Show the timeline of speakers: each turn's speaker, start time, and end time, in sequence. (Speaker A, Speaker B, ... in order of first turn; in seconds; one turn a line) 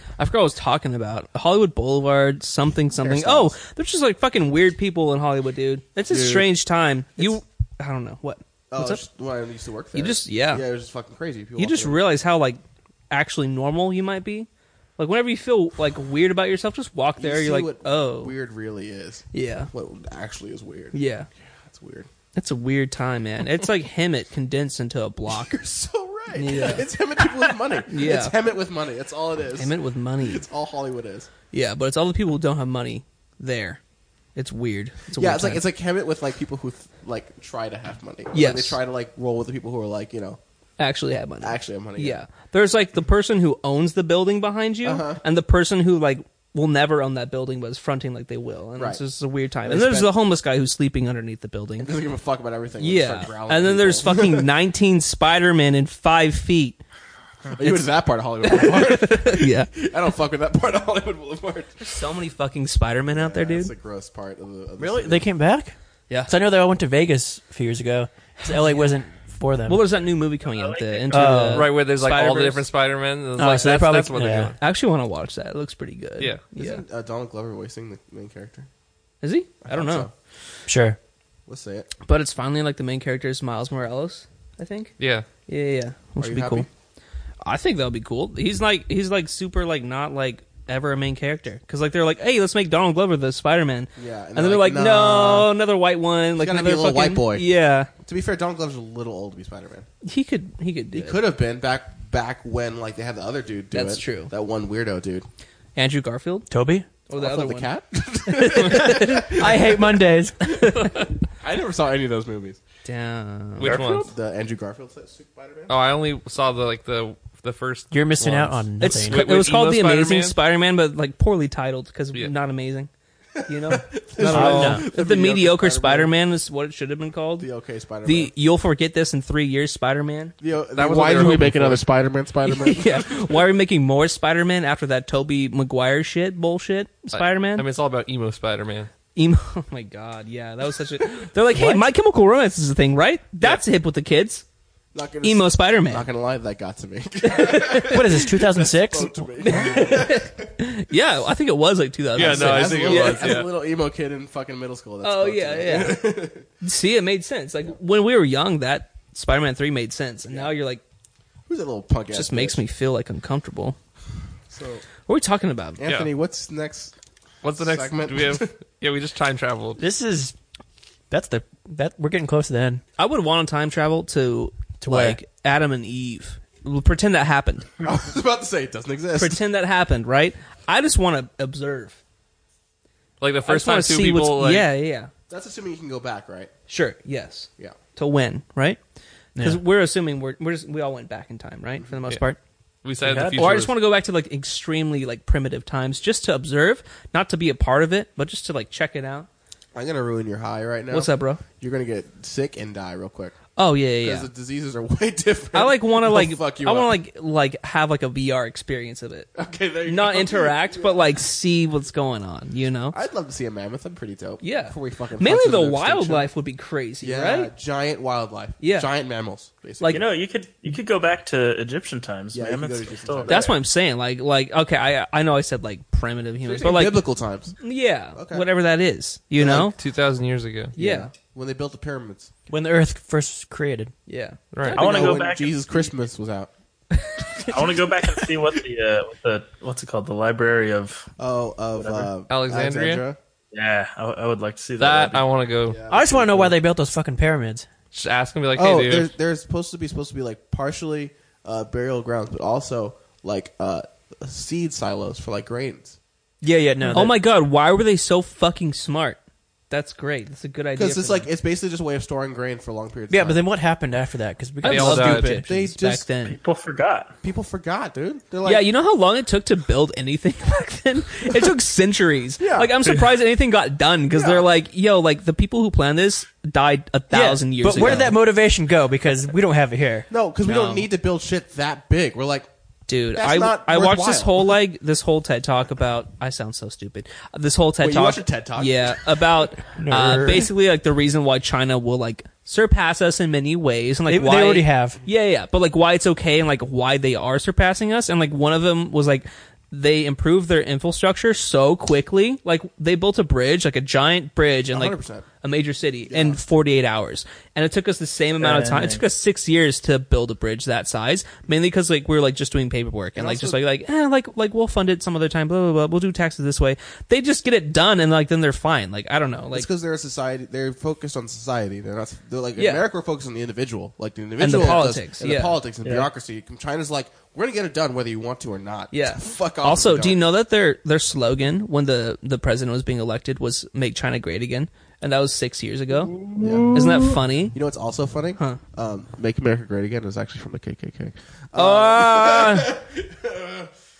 Speaker A: 0.2-9.0
Speaker B: 3.0-3.5
Speaker C: 6.1-6.5
Speaker C: 8.7-12.0
Speaker A: 9.9-10.7
Speaker A: 11.6-18.3
Speaker C: 17.2-22.1
Speaker A: 19.3-19.7
Speaker A: 20.9-21.3
Speaker A: 22.4-25.6
Speaker C: 25.3-31.3
Speaker A: 26.3-26.9
Speaker A: 27.8-28.4
Speaker A: 29.6-30.4
Speaker A: 31.5-33.8
Speaker A: 34.4-35.7
Speaker C: 35.1-40.4
Speaker A: 38.3-38.8
Speaker A: 40.8-51.9
Speaker C: 41.4-42.2
Speaker C: 44.8-45.2
Speaker C: 48.8-49.0
Speaker C: 49.6-50.1
Speaker C: 51.8-54.5
Speaker A: 52.8-56.8
Speaker C: 57.5-62.0
Speaker A: 58.4-59.7
Speaker A: 61.8-63.7
Speaker C: 63.1-65.3
Speaker B: 64.8-65.8
Speaker B: 66.3-69.8
Speaker A: 69.7-72.7
Speaker D: 70.5-71.3
Speaker B: 71.1-71.7
Speaker E: 71.2-74.6
Speaker B: 73.4-74.5
Speaker A: 74.6-76.8
Speaker C: 76.5-78.7
Speaker A: 79.2-80.1
Speaker C: 79.6-80.1
Speaker B: 80.7-81.0
Speaker C: 81.5-81.9
Speaker A: 82.0-84.9
Speaker E: 85.0-85.3
Speaker A: 85.5-86.7
Speaker C: 86.2-86.7
Speaker A: 87.4-97.9
Speaker C: 94.0-95.5
Speaker C: 96.4-97.5
Speaker C: 98.0-99.9
Speaker A: 100.0-101.3
Speaker C: 100.9-105.3
Speaker A: 103.7-104.3
Speaker A: 105.8-106.5
Speaker B: 106.5-106.9
Speaker A: 107.1-107.7
Speaker C: 107.2-112.6
Speaker A: 108.2-109.4
Speaker B: 108.9-110.4
Speaker A: 112.8-113.8
Speaker E: 113.6-114.1
Speaker D: 113.6-114.1
Speaker C: 114.0-115.7
Speaker E: 115.7-120.4
Speaker B: 117.9-119.2
Speaker A: 118.8-122.9
Speaker C: 123.4-126.1
Speaker A: 123.5-127.5
Speaker B: 124.2-124.9
Speaker C: 127.4-128.3
Speaker A: 128.1-130.3
Speaker C: 130.4-133.3
Speaker E: 130.8-131.8
Speaker A: 132.5-137.7
Speaker E: 137.1-138.9
Speaker A: 139.2-144.4
Speaker B: 141.5-141.8
Speaker C: 144.9-150.5
Speaker A: 145.2-146.1
Speaker A: 147.2-148.0
Speaker B: 147.9-149.1
Speaker A: 149.4-153.4
Speaker E: 152.2-153.5
Speaker C: 152.2-156.5
Speaker A: 155.0-160.8
Speaker C: 160.3-160.5
Speaker C: 161.5-162.6
Speaker A: 162.1-163.8
Speaker C: 164.5-164.8
Speaker A: 165.1-165.8
Speaker C: 165.8-166.9
Speaker E: 165.9-166.1
Speaker E: 167.4-169.8
Speaker C: 167.6-168.5
Speaker B: 169.8-170.3
Speaker B: 171.1-172.8
Speaker A: 173.0-177.7
Speaker B: 174.8-175.2
Speaker C: 177.8-179.4
Speaker A: 179.2-182.0
Speaker E: 183.2-184.7
Speaker A: 183.5-185.1
Speaker C: 185.3-186.5
Speaker A: 186.7-188.8
Speaker B: 189.4-189.6
Speaker A: 189.4-192.4
Speaker E: 192.8-193.8
Speaker D: 193.0-193.6
Speaker A: 193.4-199.3
Speaker C: 199.7-203.4
Speaker A: 200.9-201.4
Speaker A: 203.6-204.3
Speaker C: 204.0-207.0
Speaker A: 205.5-209.3
Speaker C: 209.3-211.0
Speaker A: 209.8-213.0
Speaker C: 212.9-216.3
Speaker A: 214.4-217.5
Speaker C: 217.0-220.1
Speaker A: 218.6-218.9
Speaker D: 219.9-223.5
Speaker C: 222.3-223.5
Speaker A: 223.3-227.1
Speaker C: 226.4-227.6
Speaker A: 227.6-229.8
Speaker C: 228.1-228.5
Speaker C: 229.3-229.8
Speaker E: 229.8-230.7
Speaker A: 230.8-231.1
Speaker C: 230.8-232.3
Speaker B: 232.5-233.9
Speaker A: 234.1-235.3
Speaker E: 234.5-234.8
Speaker C: 234.8-236.5
Speaker D: 234.8-235.5
Speaker D: 237.4-241.1
Speaker C: 241.2-243.2
Speaker D: 241.8-242.1
Speaker E: 242.3-243.0
Speaker D: 243.5-245.3
Speaker E: 244.8-245.8
Speaker C: 245.7-246.6
Speaker B: 245.9-247.7
Speaker E: 247.9-249.1
Speaker C: 248.5-256.0
Speaker B: 256.4-257.2
Speaker A: 256.9-259.2
Speaker A: 259.7-261.3
Speaker C: 260.8-263.4
Speaker B: 263.1-265.4
Speaker A: 264.6-266.4
Speaker E: 264.6-265.4
Speaker C: 264.9-266.1
Speaker D: 266.2-267.1
Speaker C: 267.2-268.7
Speaker A: 268.4-278.2
Speaker C: 272.4-272.7
Speaker D: 272.9-273.1
Speaker C: 274.1-274.5
Speaker B: 277.1-280.1
Speaker C: 277.7-278.2
Speaker C: 280.1-282.5
Speaker A: 280.4-280.9
Speaker A: 282.9-319.7
Speaker C: 283.1-284.5
Speaker C: 287.8-289.1
Speaker B: 289.8-290.5
Speaker B: 294.1-295.0
Speaker C: 304.7-305.3
Speaker C: 306.1-306.4
Speaker D: 308.4-309.0
Speaker C: 313.2-313.6
Speaker C: 319.5-330.2
Speaker A: 322.6-322.9
Speaker A: 324.4-325.6
Speaker D: 325.8-326.1
Speaker A: 328.9-336.2
Speaker D: 336.0-337.2
Speaker C: 336.4-336.7
Speaker A: 336.7-337.6
Speaker C: 337.5-343.7
Speaker A: 341.5-342.8